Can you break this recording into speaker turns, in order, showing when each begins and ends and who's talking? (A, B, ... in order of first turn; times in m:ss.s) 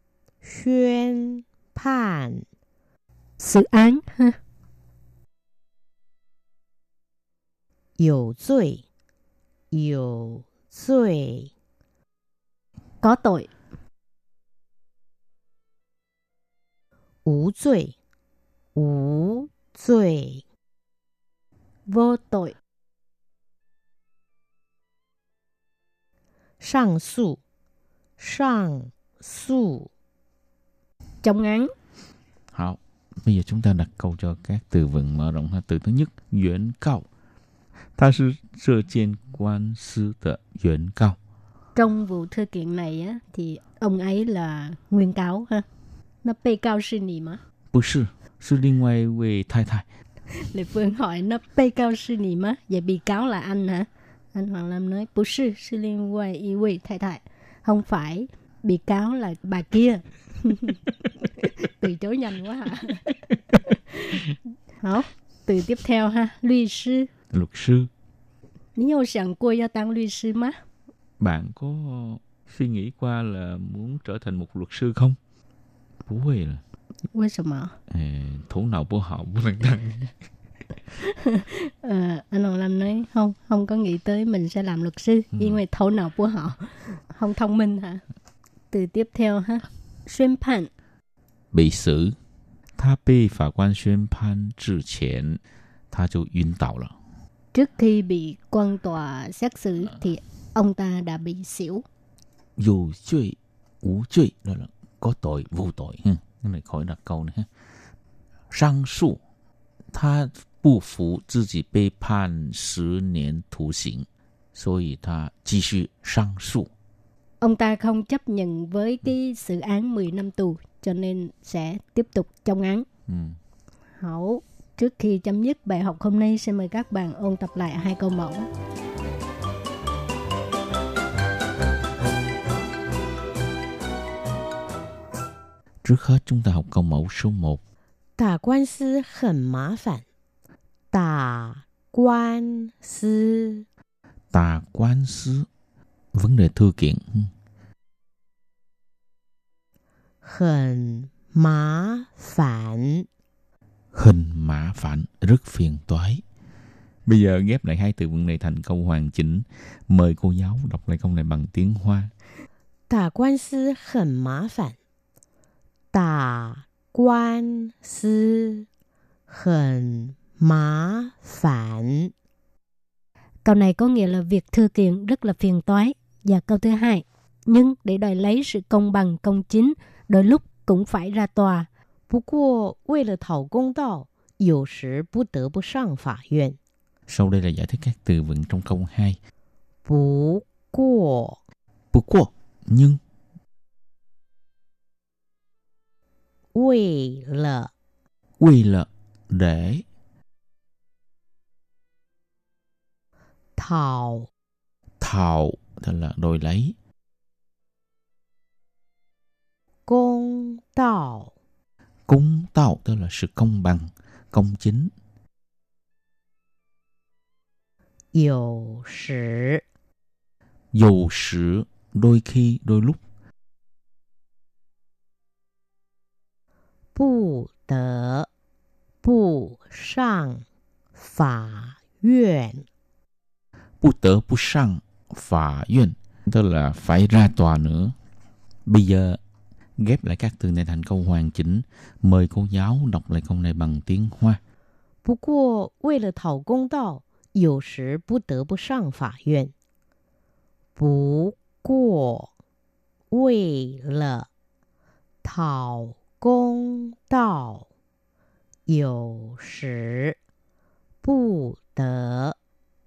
0:00.4-0:02.4 A
0:03.4-0:04.4 B
0:08.0-0:08.8 A
0:09.7-0:11.5 A
0:13.0-0:13.5 B
0:17.2-0:18.0 A
0:18.7-0:20.4 A
0:21.9-0:22.6 B
0:26.6-0:27.4 A
0:28.2-0:29.9 A
0:31.2-0:31.7 B
0:32.5-0:37.1 C
0:38.0-0:41.2 C
0:41.7-0:45.6 B
0:46.2-0:47.4 B
0:47.7-0:49.8 C
0:50.3-1:00.8 B
1:01.6-1:03.0 B
1:04.8-1:07.1 B
1:07.3-1:07.9 C
1:08.8-1:10.6 B
1:11.2-1:15.2 C
1:16.1-1:16.6 C
1:17.1-1:17.7 B
1:17.9-1:20.1 C
1:21.0-1:28.0 B
1:28.7-1:30.7 B
1:31.5-1:32.2 C
1:32.8-1:35.4 C
1:35.9-1:37.0 C
1:37.5-1:41.8 B
1:42.6-1:47.5 C
1:48.5-1:49.2 C
1:49.9-1:56.7 C
1:57.4-2:02.8 B
2:03.1-2:03.4 C
2:04.0-2:08.5 B
2:15.8-2:17.6 C
2:18.2-2:20.0 A
2:20.9-2:23.6 A
2:24.3-2:25.5 C
2:26.1-2:27.3 C
2:30.2-2:33.1 A
2:33.9-2:36.2 C
2:37.0-2:42.1 C
2:42.9-2:44.8 A
2:45.9-2:48.7 A
2:49.3-2:52.1 A
2:53.4-3:01.7 B
3:02.1-3:06.6 A
3:07.1-3:09.2 C
3:09.8-3:11.4 A
3:11.9-3:13.0 C
3:16.5-3:17.7 A
3:18.4-3:19.8 C
3:23.6-3:24.3 A
3:25.0-3:26.7 C
3:29.9-3:31.3 A
3:32.1-3:34.9 C
3:38.1-3:39.6 A
3:40.7-3:43.0 C
3:46.9-3:48.3 A
3:49.0-3:50.4 A
3:51.0-3:52.6 A
3:53.8-3:57.9 C
3:58.6-3:59.2 C
3:59.8-4:04.4 C
4:05.0-4:09.5 A
4:10.8-4:12.3 A
4:13.1-4:14.3 A
4:15.2-4:17.6 A
4:18.7-4:20.2 A
4:21.0-4:22.4 A